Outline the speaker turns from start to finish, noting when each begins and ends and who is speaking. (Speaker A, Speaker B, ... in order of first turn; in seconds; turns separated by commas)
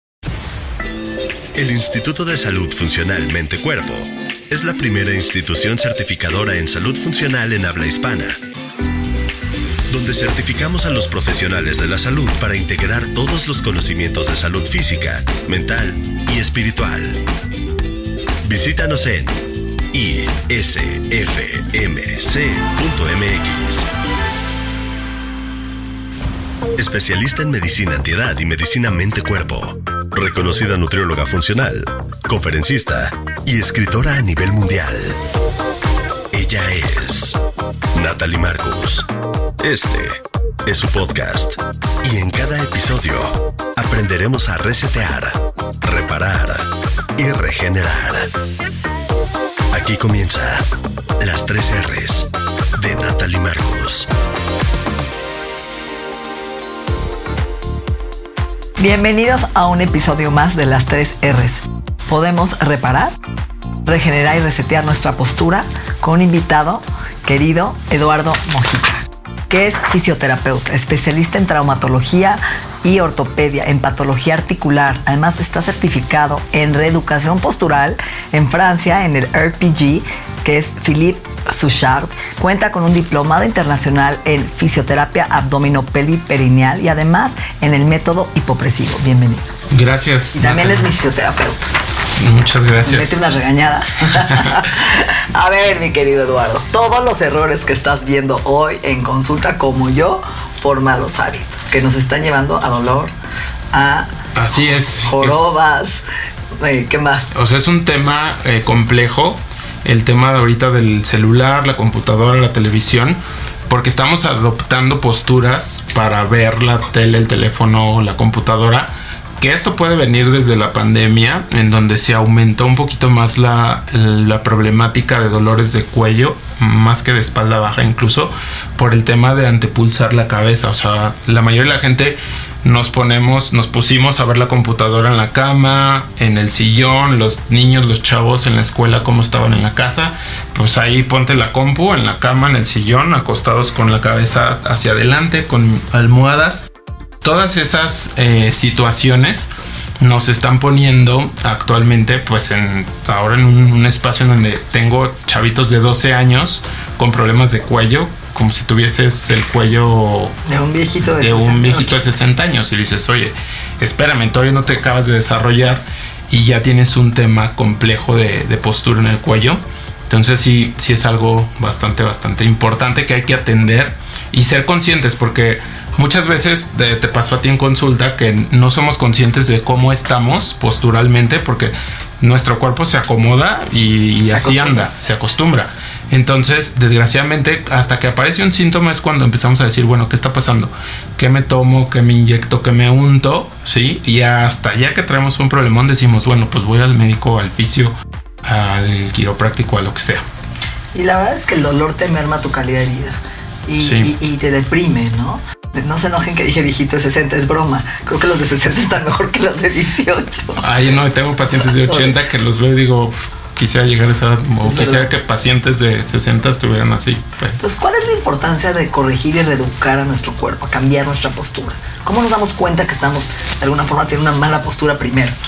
Speaker A: 1.6-8.4, Speaker A: 9.9-17.2, Speaker A: 18.4-19.4, Speaker A: 19.9-23.9, Speaker A: 26.8-35.2, Speaker A: 36.3-37.4, Speaker A: 37.9-39.1, Speaker A: 39.6-48.3, Speaker A: 49.7-50.7, Speaker A: 51.2-54.1, Speaker B: 58.8-63.2, Speaker B: 63.9-89.5, Speaker C: 89.7-90.9, Speaker B: 90.3-91.7, Speaker C: 92.2-93.2, Speaker B: 92.8-103.1, Speaker C: 94.3-94.6, Speaker B: 103.7-104.2, Speaker C: 104.3-105.6, Speaker B: 104.9-106.0, Speaker B: 106.6-107.3, Speaker C: 107.3-146.7, Speaker C: 147.2-160.3, Speaker B: 160.4-162.0, Speaker C: 161.2-200.2, Speaker B: 184.3-184.9, Speaker B: 200.9-210.6, Speaker C: 203.8-204.1, Speaker C: 210.6-217.6, Speaker B: 211.7-212.1, Speaker B: 214.6-215.1, Speaker B: 217.6-225.4